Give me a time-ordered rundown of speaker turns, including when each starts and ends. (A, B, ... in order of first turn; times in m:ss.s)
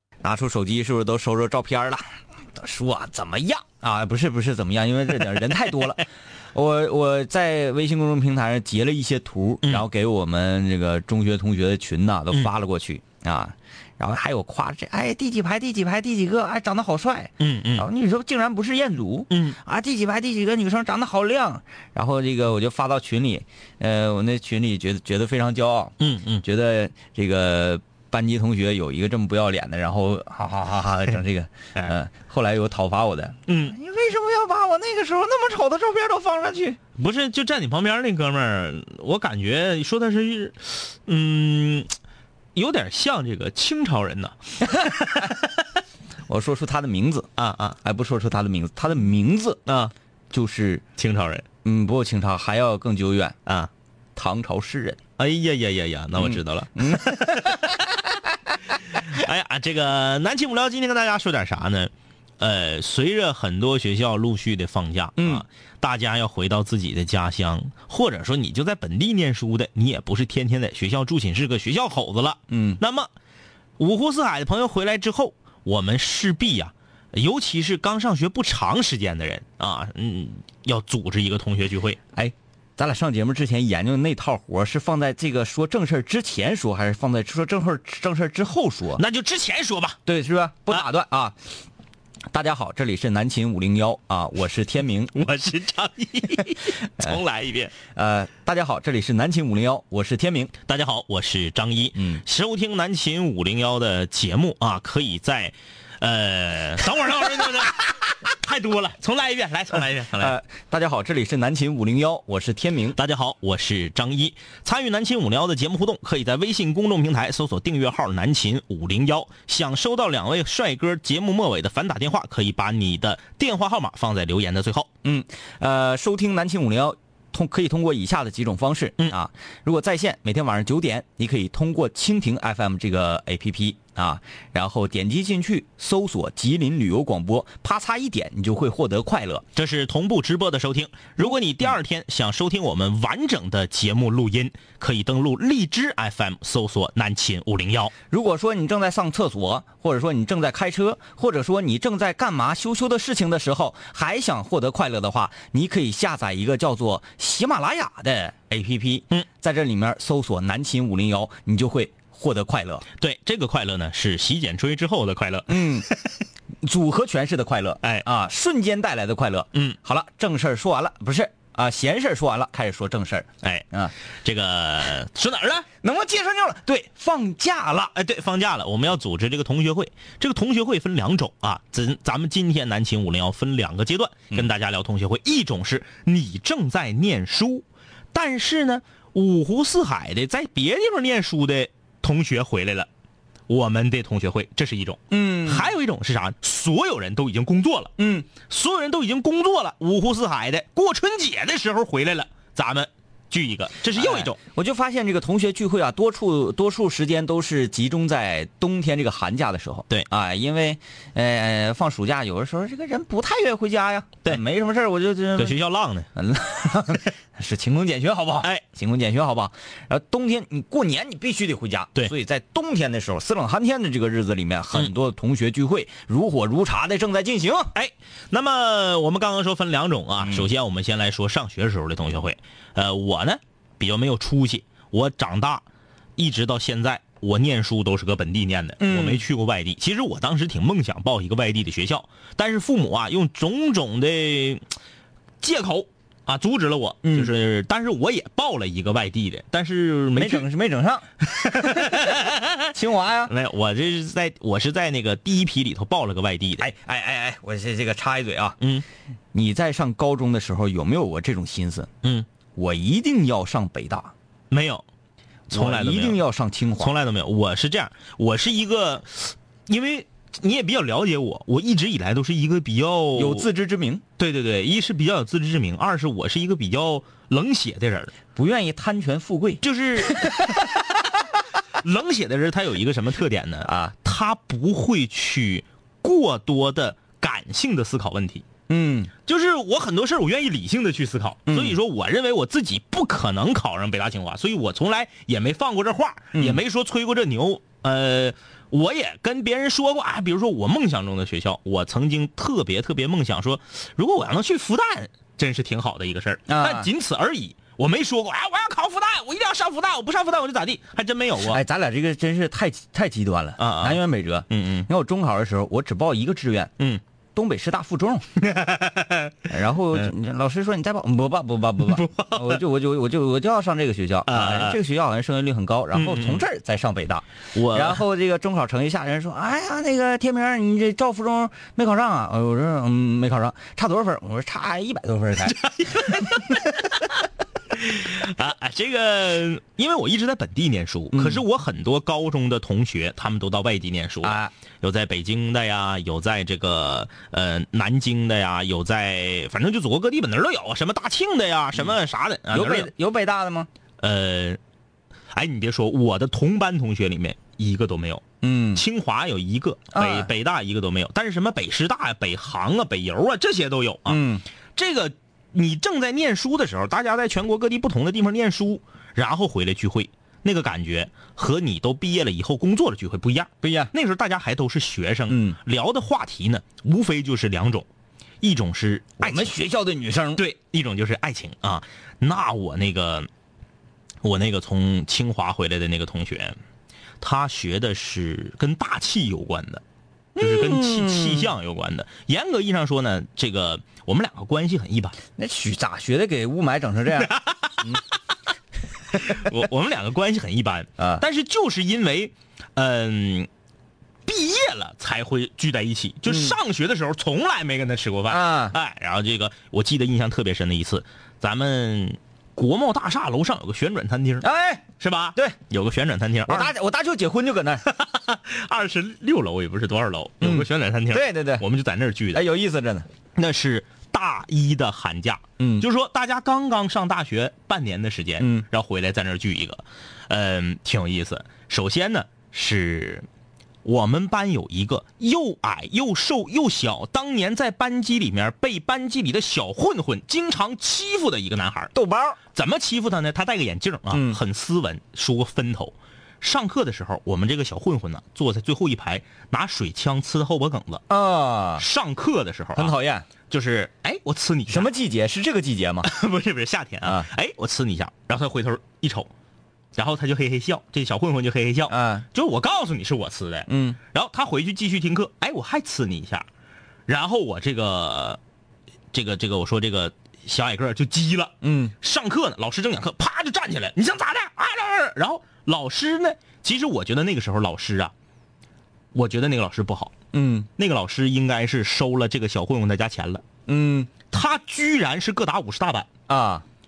0:00.2-0:02.0 A
0:02.6-0:36.8 A
0:17.4-0:17.9 B
0:19.3-0:19.6 B
0:26.0-0:26.4 B
0:33.5-0:33.8 B
0:37.0-0:41.9 B
0:42.6-0:44.4 B
0:44.9-0:45.3 A
0:46.3-0:47.3 A
0:47.4-0:47.8 B
0:47.8-0:49.6 A
0:49.7-0:49.9 B
0:50.3-0:50.8 A
0:51.0-0:51.5 B
0:51.6-0:53.4 A
0:53.5-0:53.7 B
0:54.2-0:55.0 A
0:55.2-0:57.8 B
0:56.2-0:57.7 A
0:58.9-1:13.1 B
1:05.2-1:05.4 A
1:12.5-1:12.8 A
1:13.8-1:22.0 B
1:22.1-1:29.0 A
1:29.0-1:30.0 B
1:30.1-1:31.4 A
1:32.3-1:35.1 A
1:35.1-1:37.8 B
1:37.9-1:40.5 A
1:40.7-1:50.4 B
1:42.0-1:42.2 A
1:50.0-1:53.0 A
1:53.0-2:04.9 B
2:05.0-2:19.4 A
2:19.6-2:27.9 B
2:28.1-2:42.8 A
2:43.0-2:46.2 B
2:45.5-2:45.9 A
2:46.6-2:53.9 A
2:53.4-2:53.7 B
2:54.2-2:55.7 B
2:55.8-2:57.9 A
2:58.0-3:12.9 B
3:13.5-3:24.4 B
3:15.1-3:15.7 A
3:18.0-3:18.3 A
3:24.0-3:35.6 A
3:35.4-3:36.1 B
3:36.1-3:47.7 A
3:47.8-3:55.6 B
3:50.2-3:50.5 A
3:56.2-4:04.7 B
3:58.8-3:59.2 A
4:05.4-4:10.5 B
4:07.0-4:07.3 A
4:10.2-4:13.3 A
4:11.3-4:12.7 B
4:13.3-4:16.6 B
4:16.6-4:18.6 A
4:18.6-4:18.8 B
4:19.3-4:21.9 A
4:22.6-4:24.1 A
4:24.5-4:24.8 B
4:25.5-4:26.9 A
4:25.5-4:26.2 B
4:26.8-4:33.5 B
4:33.2-4:34.0 A
4:34.2-4:38.1 B
4:38.3-4:39.6 A
4:39.6-4:40.8 B
4:40.1-4:40.6 A
4:41.7-4:48.4 B
4:43.6-4:43.9 A
4:48.7-4:49.1 A
4:49.3-5:11.6 B
4:51.5-4:51.8 A
4:56.3-4:56.6 A
5:06.5-5:06.9 A
5:11.5-5:16.7 A
5:13.6-5:14.9 B
5:17.4-5:18.3 A
5:18.4-5:19.4 B
5:19.5-5:36.3 A
5:21.8-5:22.6 B
5:24.3-5:24.8 B
5:25.9-5:26.4 B
5:27.5-5:28.0 B
5:35.4-5:37.2 B
5:37.7-5:52.9 B
5:41.1-5:41.4 A
5:44.2-5:44.5 A
5:52.5-5:53.7 A
5:54.0-5:54.6 B
5:55.3-6:04.2 B
5:58.4-5:58.8 A
5:59.9-6:00.3 A
6:04.1-6:04.4 A
6:04.8-6:17.9 B
6:13.6-6:13.9 A
6:15.3-6:15.6 A
6:18.4-6:19.5 B
6:19.2-6:20.4 A
6:20.4-6:23.3 B
6:24.2-6:26.6 B
6:27.2-6:29.8 B
6:30.4-6:31.5 A
6:30.4-6:35.2 B
6:35.4-6:38.0 A
6:37.2-6:38.0 B
6:39.1-6:43.5 B
6:41.0-6:41.2 A
6:44.2-6:54.5 B
6:46.3-6:46.6 A
6:48.3-6:48.8 A
6:54.4-6:54.8 A
6:55.0-6:56.7 B
6:56.5-6:57.8 A
6:57.8-7:02.5 B
7:00.4-7:01.7 A
7:02.3-7:03.1 A
7:03.4-7:13.3 B
7:05.6-7:05.9 A
7:08.4-7:08.7 A
7:13.8-7:21.9 B
7:21.9-7:22.4 A
7:22.5-7:31.0 B
7:24.1-7:24.4 A
7:31.1-7:31.8 A
7:31.8-7:33.0 B
7:32.8-7:33.3 A
7:33.5-7:34.9 B
7:34.7-7:36.1 A
7:36.0-7:39.3 B
7:37.0-7:37.3 A
7:40.0-7:46.5 B
7:41.9-7:42.3 A
7:43.7-7:44.0 A
7:47.1-7:48.4 B
7:49.1-7:58.1 B
7:51.6-7:51.9 A
7:59.1-8:00.1 B
8:00.3-8:00.7 A
8:00.8-8:03.4 B
8:03.7-8:04.1 A
8:04.3-8:06.1 B
8:06.3-8:06.6 A